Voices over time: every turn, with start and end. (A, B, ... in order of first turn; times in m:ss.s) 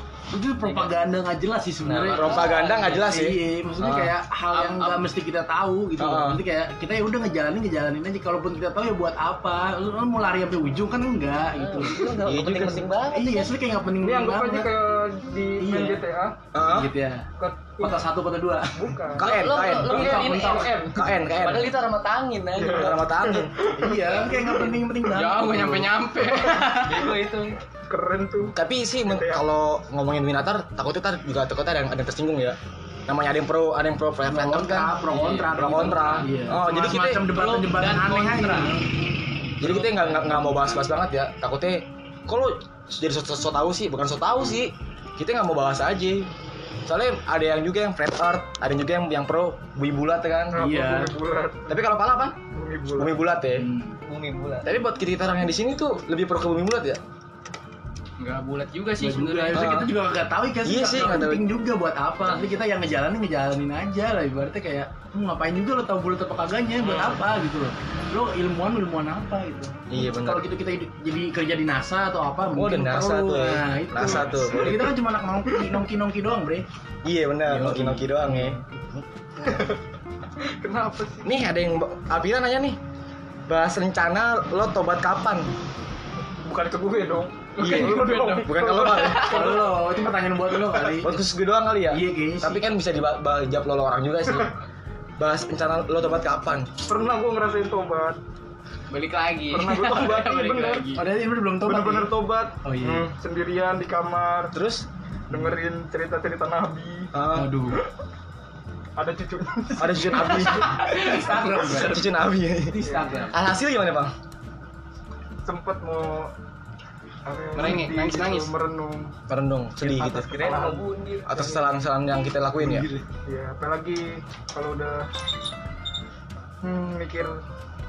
0:00.3-0:12.3 A
0:00.6-0:00.9 B
0:01.8-0:03.1 B
0:02.2-0:04.1 C
0:04.5-0:05.1 D
0:06.0-0:06.4 C
0:11.5-0:13.6 B
0:12.2-0:13.1 C
0:13.1-0:14.8 A
0:14.0-0:16.4 E
0:15.6-0:16.0 A
0:16.5-0:16.9 C
0:16.6-0:17.3 A
0:17.4-0:18.1 E
0:17.8-0:18.7 A
0:18.7-0:19.3 E
0:19.2-0:20.4 C
0:19.2-0:23.0 B
0:19.5-0:20.9 A
0:20.9-0:21.7 C
0:22.5-0:24.8 E
0:22.8-0:23.5 C
0:23.6-0:27.0 A
0:25.0-0:27.2 D
0:26.8-0:27.6 B
0:27.9-0:29.5 E
0:28.6-0:32.6 C
0:33.1-0:37.3 C
0:34.2-0:38.9 A
0:35.1-0:36.2 D
0:37.3-0:38.8 D
0:39.6-0:46.3 C
0:39.6-0:40.5 A
0:46.9-0:50.6 C
0:50.5-0:51.8 E
0:50.6-0:51.1 A
0:51.7-0:52.4 C
0:52.5-0:53.2 E
0:53.0-0:53.7 C
0:53.6-0:54.0 A
0:54.0-0:54.7 B
0:54.6-0:57.0 C
0:58.2-0:59.7 D
0:59.0-1:16.6 A
0:59.5-0:59.9 C
1:00.6-1:01.4 C
1:06.8-1:07.2 D
1:09.9-1:10.5 C
1:12.5-1:14.8 C
1:14.6-1:14.9 E
1:15.5-1:15.8 E
1:17.0-1:18.6 C
1:17.5-1:19.7 A
1:19.4-1:19.8 E
1:20.6-1:21.4 E
1:21.2-1:22.8 C
1:23.5-1:25.5 C
1:26.4-1:29.7 E
1:27.6-1:29.9 D
1:27.6-1:29.5 C
1:29.1-1:31.2 A
1:31.0-1:34.5 C
1:31.9-1:32.6 A
1:35.2-1:36.7 C
1:36.9-1:38.2 E
1:38.9-1:41.0 D
1:39.5-1:41.0 E
1:41.0-1:43.1 A
1:41.6-1:44.5 E
1:42.8-1:43.1 C
1:44.5-1:44.9 C
1:45.3-1:45.6 A
1:45.3-1:47.1 E
1:47.1-1:47.5 C
1:47.4-1:47.8 A
1:49.0-1:50.8 E
1:49.8-1:51.0 C
1:50.2-1:52.0 A
1:50.7-1:52.0 D
1:51.7-1:52.8 C
1:52.7-1:53.4 A
1:52.8-1:53.3 E
1:53.3-1:54.1 C
1:55.4-1:56.3 E
1:57.3-1:59.2 E
1:57.6-1:58.5 D
1:59.3-2:02.9 C
1:59.8-2:01.6 E
2:00.4-2:01.5 B
2:02.6-2:03.0 A
2:03.1-2:05.1 E
2:06.6-2:07.4 E